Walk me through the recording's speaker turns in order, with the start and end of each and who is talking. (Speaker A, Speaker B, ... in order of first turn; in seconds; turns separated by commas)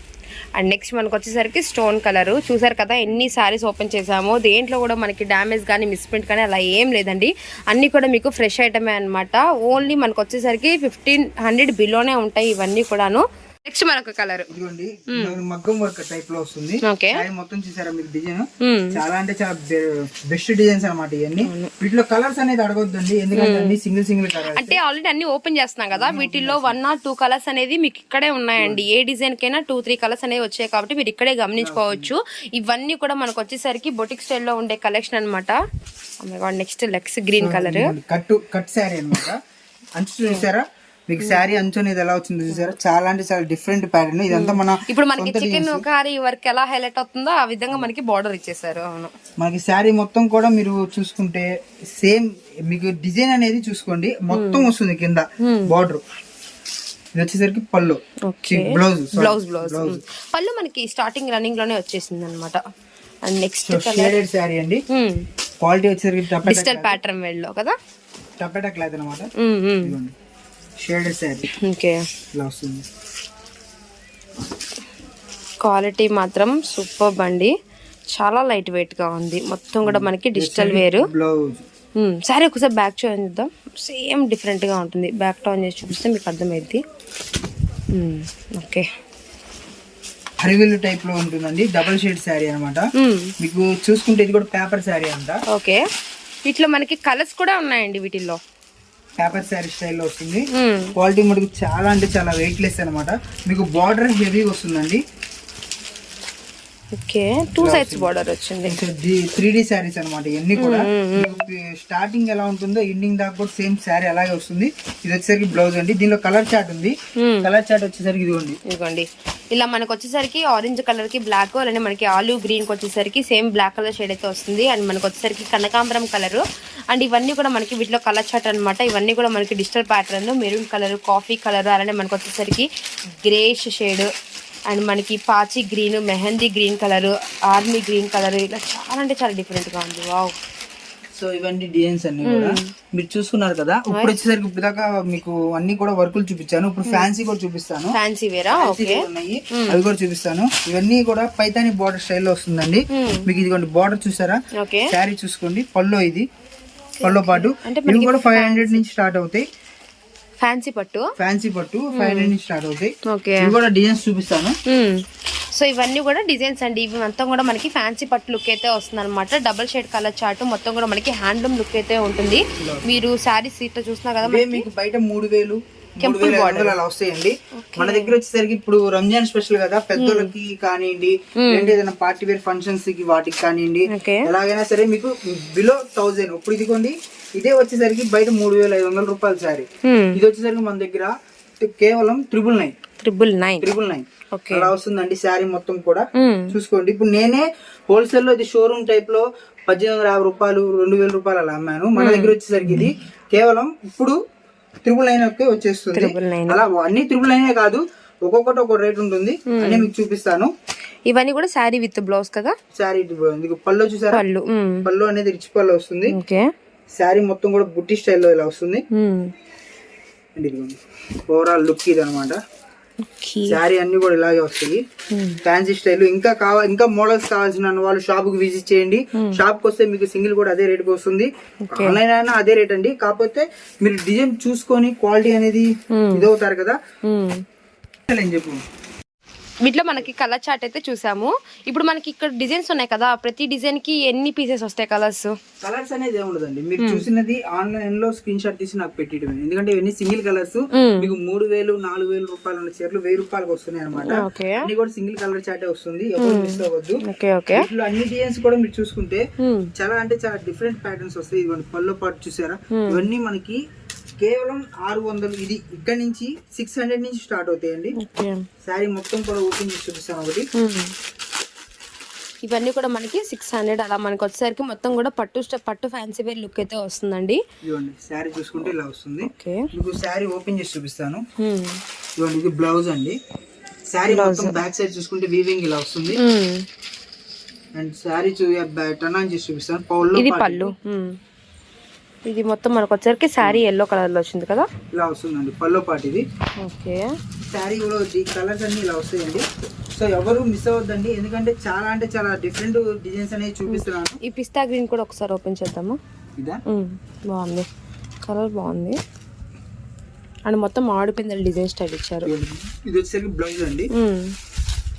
Speaker A: 0.6-14.5, Speaker B: 14.5-24.8, Speaker A: 15.1-15.4, Speaker A: 16.8-17.2, Speaker A: 18.6-19.0, Speaker A: 21.4-21.7, Speaker A: 23.3-23.8, Speaker A: 24.5-35.6, Speaker B: 25.9-26.8, Speaker B: 28.6-28.8, Speaker B: 31.6-32.1, Speaker A: 36.2-37.9, Speaker B: 37.4-39.4, Speaker B: 40.0-45.9, Speaker A: 44.3-49.1, Speaker B: 49.4-56.0, Speaker A: 54.3-54.7, Speaker A: 55.4-55.7, Speaker B: 57.2-60.0, Speaker A: 58.3-62.6, Speaker A: 63.2-64.2, Speaker B: 63.6-64.8, Speaker A: 64.9-65.3, Speaker B: 65.6-67.0, Speaker A: 66.5-67.8, Speaker B: 68.4-69.3, Speaker A: 69.4-70.0, Speaker B: 69.8-70.2, Speaker B: 70.8-71.5, Speaker A: 71.6-72.0, Speaker B: 72.3-72.9, Speaker A: 75.6-77.5, Speaker A: 78.1-81.1, Speaker B: 79.8-81.7, Speaker A: 82.0-86.8, Speaker A: 87.9-88.9, Speaker B: 90.4-95.4, Speaker A: 93.0-93.3, Speaker A: 95.5-95.8, Speaker A: 96.5-98.4, Speaker B: 99.2-105.0, Speaker A: 100.5-100.9, Speaker A: 107.0-108.8, Speaker B: 107.6-108.1, Speaker B: 108.7-118.6, Speaker A: 110.6-111.5, Speaker A: 117.2-117.5, Speaker A: 118.7-134.1, Speaker A: 134.7-140.4, Speaker B: 141.2-148.0, Speaker A: 142.2-142.7, Speaker A: 146.9-147.1, Speaker A: 147.9-149.8, Speaker B: 148.5-156.3, Speaker A: 152.9-153.3, Speaker A: 154.6-154.9, Speaker A: 157.0-158.8, Speaker B: 157.0-159.4, Speaker A: 160.4-161.1, Speaker B: 161.2-164.6, Speaker A: 161.9-162.3, Speaker A: 163.1-163.5, Speaker A: 164.7-174.7, Speaker B: 172.6-173.0, Speaker B: 174.2-192.7, Speaker A: 176.0-176.8, Speaker A: 177.5-178.1, Speaker A: 180.0-180.3, Speaker A: 181.4-181.8, Speaker A: 183.9-184.3, Speaker A: 189.8-190.2, Speaker A: 193.0-193.7, Speaker B: 193.6-204.2, Speaker A: 194.3-194.7, Speaker A: 196.2-196.5, Speaker A: 202.0-202.9, Speaker B: 204.9-210.5, Speaker A: 205.9-206.6, Speaker A: 209.5-209.9, Speaker A: 211.1-212.6, Speaker B: 212.8-214.2, Speaker A: 214.1-214.9, Speaker B: 214.8-216.2, Speaker A: 216.1-216.5, Speaker B: 217.0-218.8, Speaker A: 218.9-219.3, Speaker B: 220.4-222.4, Speaker A: 223.1-223.6, Speaker B: 223.4-224.8, Speaker A: 225.1-225.4, Speaker B: 225.4-236.8, Speaker A: 231.7-232.0, Speaker A: 235.9-236.3, Speaker A: 237.1-237.4, Speaker B: 238.1-238.6, Speaker A: 239.6-245.4, Speaker B: 245.6-259.2, Speaker A: 246.8-247.1, Speaker A: 250.7-251.1, Speaker A: 254.0-254.6, Speaker A: 256.2-257.7, Speaker A: 259.4-259.7, Speaker B: 259.8-263.6, Speaker A: 262.8-263.0, Speaker B: 264.2-268.0, Speaker A: 268.0-268.4, Speaker B: 268.6-270.5, Speaker A: 270.6-270.9, Speaker A: 272.4-277.4, Speaker B: 277.6-281.2, Speaker A: 279.2-279.7, Speaker A: 281.4-281.8, Speaker B: 282.2-283.2, Speaker B: 283.9-286.2, Speaker A: 284.1-284.6, Speaker A: 286.1-286.7, Speaker B: 287.8-290.7, Speaker A: 290.1-291.2, Speaker A: 292.3-294.7, Speaker B: 294.9-296.2, Speaker A: 296.6-297.1, Speaker B: 297.5-299.4, Speaker B: 300.0-304.2, Speaker A: 303.7-306.0, Speaker B: 306.4-306.6, Speaker A: 306.7-307.7, Speaker A: 308.2-309.0, Speaker A: 310.5-312.3, Speaker B: 312.2-313.9, Speaker A: 313.9-314.4